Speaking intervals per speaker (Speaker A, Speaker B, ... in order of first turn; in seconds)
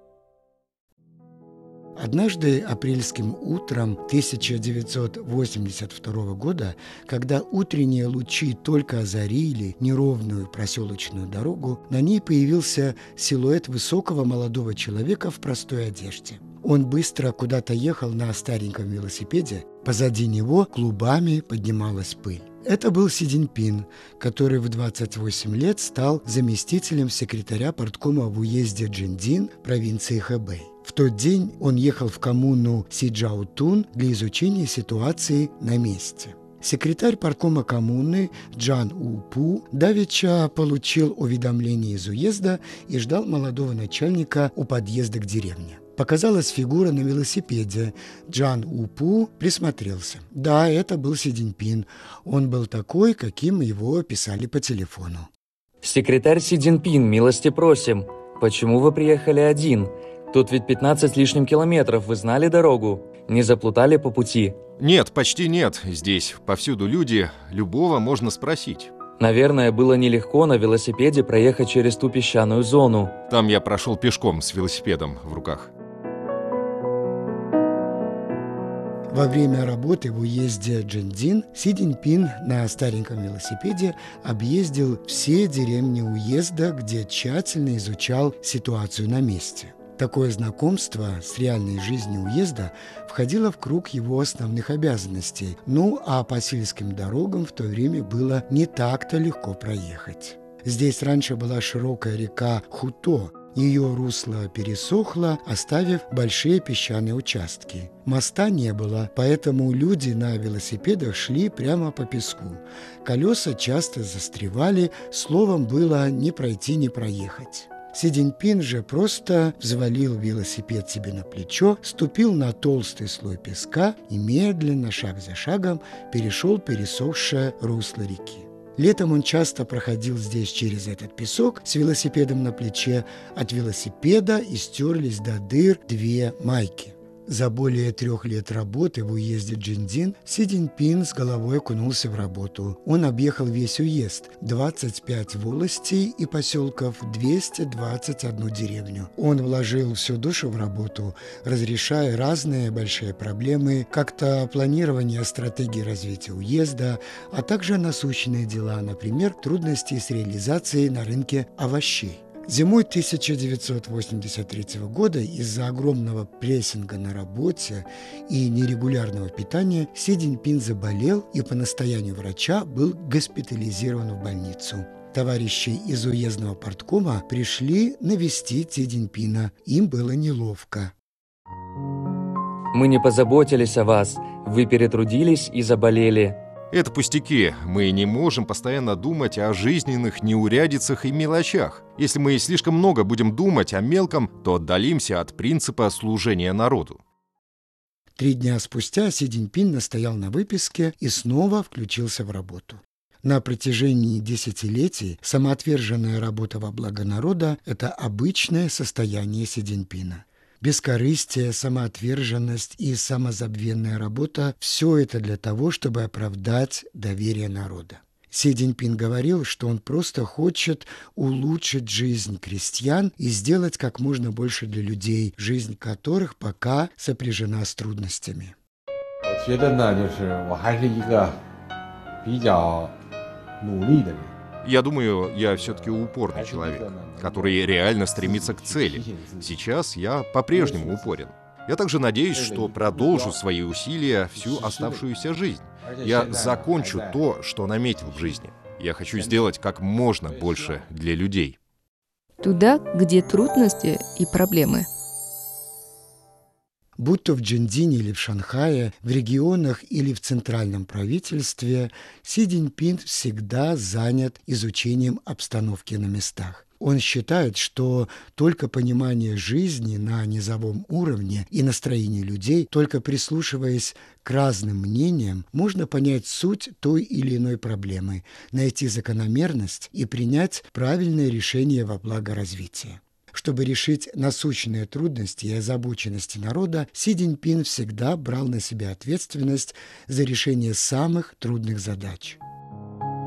Speaker A: 1.9-55.3, 79.1-180.9, 198.2-228.6, 257.0-292.4
Speaker B: 55.8-64.6, 69.2-73.2, 182.7-186.4
Speaker C: 64.8-68.9, 73.3-75.7, 186.7-197.0, 234.6-251.6
Speaker D: 229.2-231.4, 232.2-232.9, 233.6-234.3, 235.5-239.6, 240.5-241.2, 242.3-243.4, 244.3-245.1, 245.8-247.2, 248.1-248.3, 249.1-249.6, 250.2-250.9
Speaker E: 252.4-254.9